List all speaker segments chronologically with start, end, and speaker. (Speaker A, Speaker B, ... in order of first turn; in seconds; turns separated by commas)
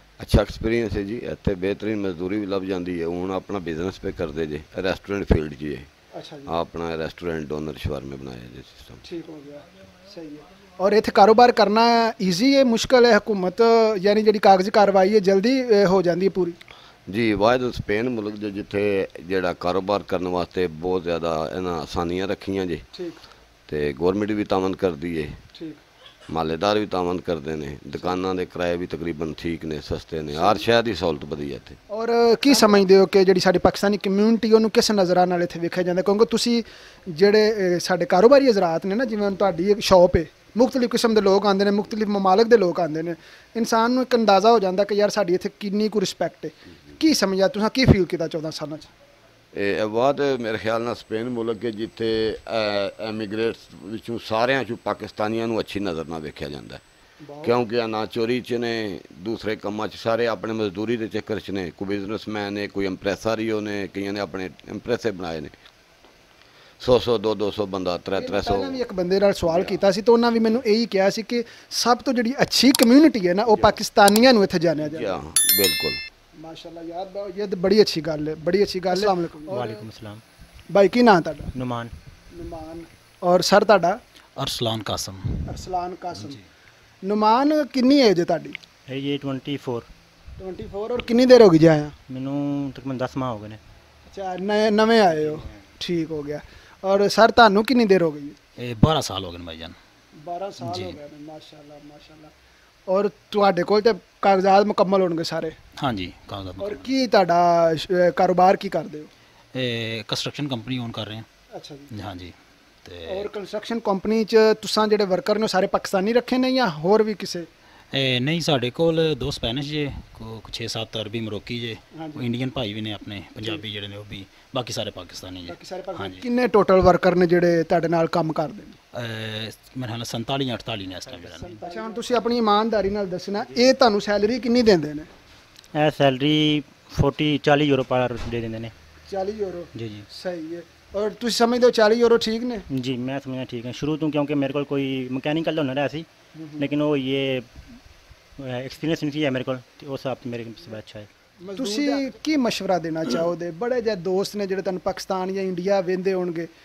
Speaker A: 0.2-5.9, Speaker B: 6.1-6.5, Speaker A: 6.5-9.0, Speaker B: 9.0-16.6, Speaker A: 17.1-22.8, Speaker B: 22.9-23.2, Speaker A: 23.7-25.3, Speaker B: 25.6-25.8, Speaker A: 26.3-31.8, Speaker B: 30.4-30.6, Speaker B: 31.9-48.9, Speaker A: 49.5-56.8, Speaker B: 57.2-57.6, Speaker A: 57.4-65.5, Speaker A: 66.8-68.8, Speaker B: 68.2-75.2, Speaker A: 74.8-76.0, Speaker B: 76.4-79.8, Speaker C: 78.9-80.2, Speaker B: 80.7-81.5, Speaker C: 81.5-81.9, Speaker B: 82.3-84.0, Speaker D: 84.4-85.4, Speaker B: 85.5-86.4, Speaker B: 87.1-88.6, Speaker C: 88.9-89.9, Speaker B: 90.4-91.9, Speaker C: 92.1-93.6, Speaker B: 94.1-98.4, Speaker D: 98.6-99.8, Speaker B: 100.2-102.3, Speaker D: 100.6-101.0, Speaker B: 102.9-105.6, Speaker D: 105.8-106.9, Speaker B: 106.6-109.1, Speaker D: 109.5-111.2, Speaker B: 111.5-111.9, Speaker D: 111.9-112.3, Speaker D: 112.8-113.3, Speaker B: 113.1-117.5, Speaker D: 117.9-126.2, Speaker B: 122.0-122.3, Speaker B: 125.5-128.8, Speaker D: 129.0-131.6, Speaker B: 131.6-135.1, Speaker C: 135.8-138.7, Speaker B: 139.1-142.7, Speaker C: 142.7-147.5, Speaker B: 146.3-146.6, Speaker C: 148.4-151.1, Speaker B: 151.5-156.5